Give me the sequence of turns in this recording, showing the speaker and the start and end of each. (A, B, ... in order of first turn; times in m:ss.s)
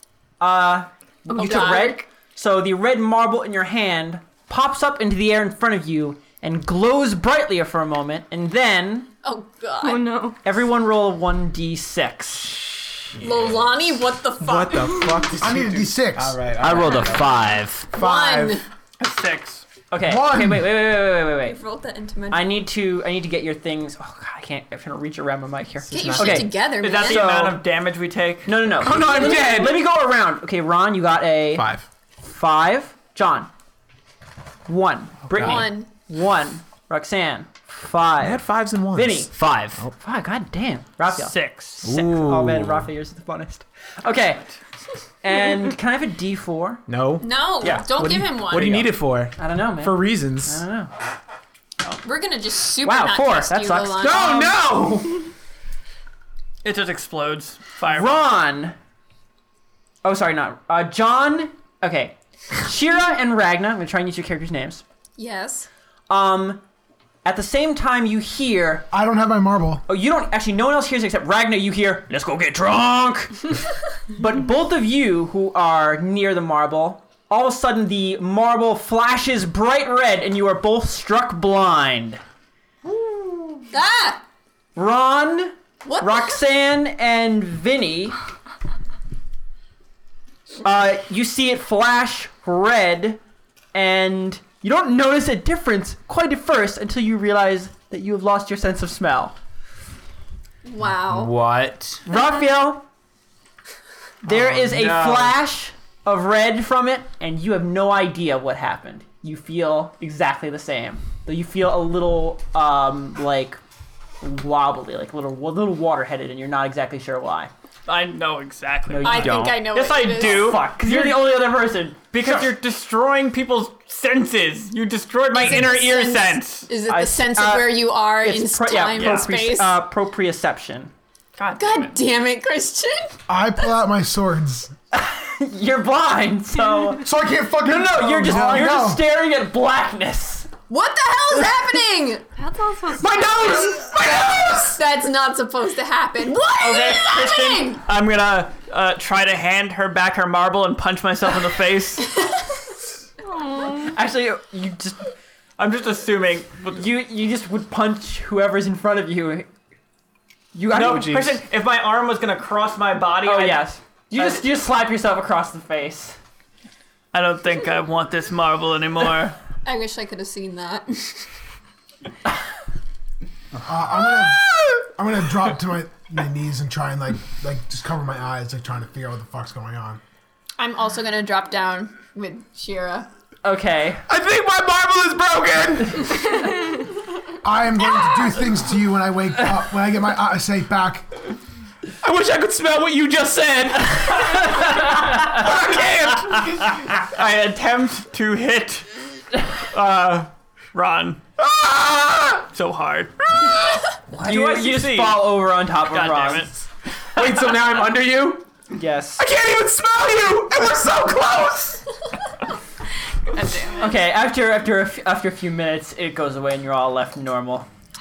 0:00.4-0:09.1 A
0:01.3-0:02.0 B
0:09.2-0:10.2 B
0:09.8-0:10.4 C
0:10.4-0:12.7 A
0:13.2-0:15.2 B
0:14.4-0:17.3 D
0:15.4-0:16.4 E
0:16.6-0:17.9 F
0:17.9-0:18.6 D
0:17.9-0:18.6 B
0:19.0-0:19.6 G
0:19.9-0:21.6 A
0:20.0-0:20.7 E
0:21.4-0:22.6 B
0:22.3-0:27.6 A
0:25.9-0:26.6 D
0:25.9-0:27.3 B
0:26.8-0:28.5 G
0:28.5-0:31.7 A
0:28.8-0:29.8 D
0:28.9-0:29.8 B
0:31.5-0:31.9 D
0:32.2-0:33.5 A
0:34.7-0:39.3 A
0:35.3-0:35.6 D
0:35.4-0:35.9 B
0:38.2-0:39.9 D
0:39.3-0:39.8 F
0:40.0-0:44.5 A
0:41.1-0:41.8 G
0:41.8-0:42.9 D
0:45.2-0:46.8 A
0:46.9-0:50.6 D
0:47.2-0:48.8 B
0:49.4-0:50.9 A
0:52.0-0:54.5 B
0:52.8-0:54.6 A
0:54.0-0:55.3 D
0:56.6-0:58.3 G
0:57.9-0:58.8 A
1:00.0-1:04.8 A
1:05.2-1:05.7 B
1:06.1-1:06.6 A
1:07.2-1:08.9 A
1:08.9-1:09.8 E
1:09.9-1:13.6 A
1:14.1-1:22.2 A
1:23.7-1:24.2 B
1:24.8-1:28.2 A
1:25.8-1:26.4 B
1:30.6-1:33.2 A
1:33.7-1:39.4 A
1:40.6-1:41.3 B
1:41.0-1:42.0 F
1:42.1-1:42.8 A
1:44.2-1:53.6 A
1:44.3-1:45.3 D
1:54.2-1:57.5 A
1:57.9-2:01.4 G
1:58.9-2:02.5 A
1:59.0-2:00.6 B
2:02.1-2:06.7 G
2:05.3-2:09.8 B
2:06.9-2:10.9 A
2:09.0-2:09.3 G
2:11.4-2:12.0 G
2:11.6-2:13.2 B
2:13.3-2:14.7 E
2:14.9-2:17.0 A
2:17.0-2:19.0 E
2:17.6-2:20.5 A
2:18.2-2:18.7 D
2:20.7-2:22.3 B
2:22.4-2:23.8 C
2:23.0-2:24.8 D
2:23.4-2:23.8 B
2:24.6-2:27.8 B
2:26.6-2:32.2 G
2:33.2-2:34.0 C
2:33.9-2:35.0 A
2:35.6-2:36.8 G
2:36.8-2:39.5 A
2:40.6-2:41.3 A
2:40.7-2:41.3 D
2:40.7-2:44.4 G
2:43.2-2:46.2 A
2:47.1-2:49.4 G
2:49.6-2:51.3 B
2:53.7-3:00.0 E
3:00.6-3:03.1 B
3:03.4-3:04.0 A
3:04.1-3:06.3 D
3:07.4-3:11.1 E
3:12.0-3:16.8 D
3:16.6-3:21.2 G
3:19.8-3:20.2 D
3:21.4-3:22.5 D
3:22.5-3:23.2 G
3:23.4-3:23.8 D
3:24.1-3:25.3 G
3:24.1-3:26.5 A
3:25.9-3:26.6 G
3:27.2-3:28.5 D
3:28.7-3:29.3 A
3:29.2-3:31.8 D
3:33.4-3:33.8 C
3:33.8-3:37.7 A